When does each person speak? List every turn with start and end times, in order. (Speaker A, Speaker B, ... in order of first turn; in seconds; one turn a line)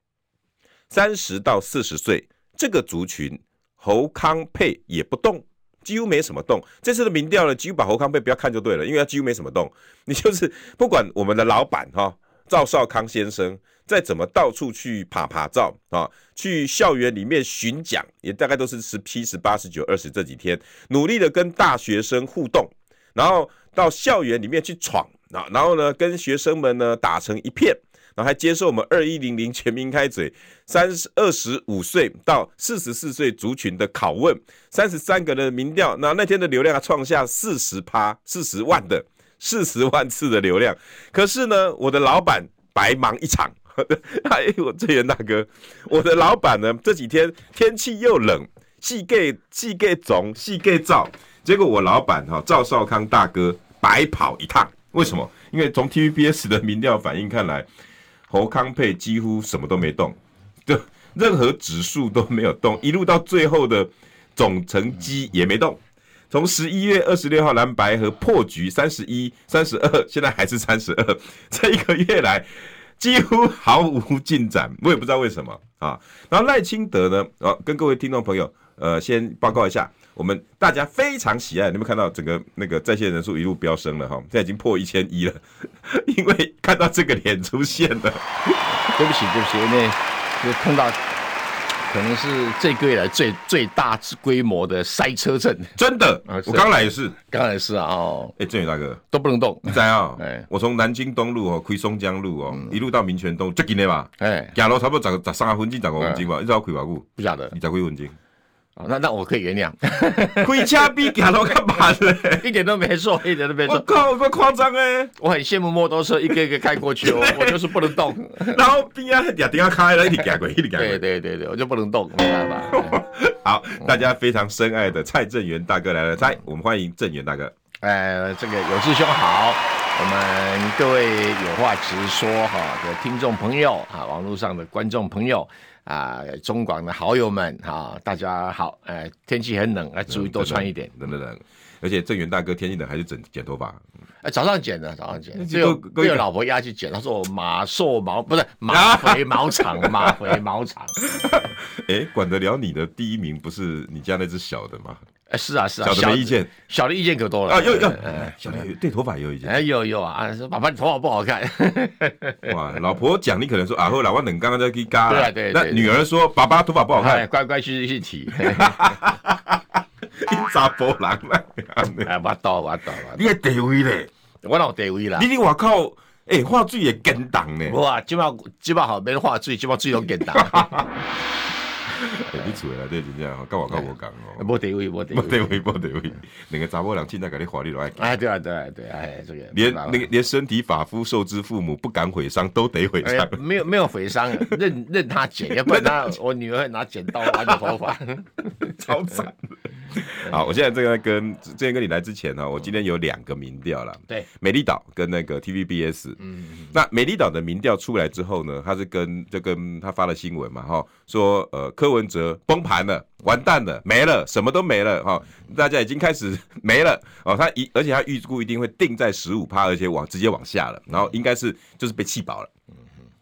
Speaker A: 0.9-57.6
Speaker A: 58.3-88.6
Speaker B: 88.8-91.0
Speaker B: 91.8-98.3
Speaker A: 95.8-97.2
Speaker A: 98.4-99.0
Speaker B: 99.1-100.5
Speaker A: 99.6-108.2
Speaker B: 104.2-104.5
Speaker B: 107.2-107.5
Speaker B: 108.8-110.9
Speaker A: 110.4-112.5
Speaker B: 112.3-113.9
Speaker A: 113.6-115.1
Speaker B: 115.2-118.6
Speaker A: 117.0-121.0
Speaker B: 120.8-123.0
Speaker A: 122.8-127.5
Speaker B: 127.8-140.9
Speaker A: 140.1-143.8
Speaker B: 144.2-151.4
Speaker A: 145.3-146.2
Speaker A: 148.7-150.4
Speaker A: 151.0-155.0
Speaker B: 155.3-158.4
Speaker A: 155.8-156.5
Speaker A: 157.5-159.5
Speaker B: 159.4-162.5
Speaker A: 162.5-167.2
Speaker B: 165.1-165.9
Speaker B: 166.9-169.1
Speaker A: 168.4-172.1
Speaker B: 172.0-173.2
Speaker A: 173.0-174.1
Speaker B: 174.4-175.3
Speaker A: 175.2-177.8
Speaker B: 177.7-180.8
Speaker A: 180.2-181.0
Speaker A: 181.9-184.4
Speaker B: 182.3-182.5
Speaker B: 183.7-185.6
Speaker A: 185.1-188.2
Speaker B: 188.0-190.1
Speaker A: 189.5-193.4
Speaker B: 193.0-198.9
Speaker A: 195.6-196.1
Speaker A: 197.2-197.7
Speaker A: 198.6-222.5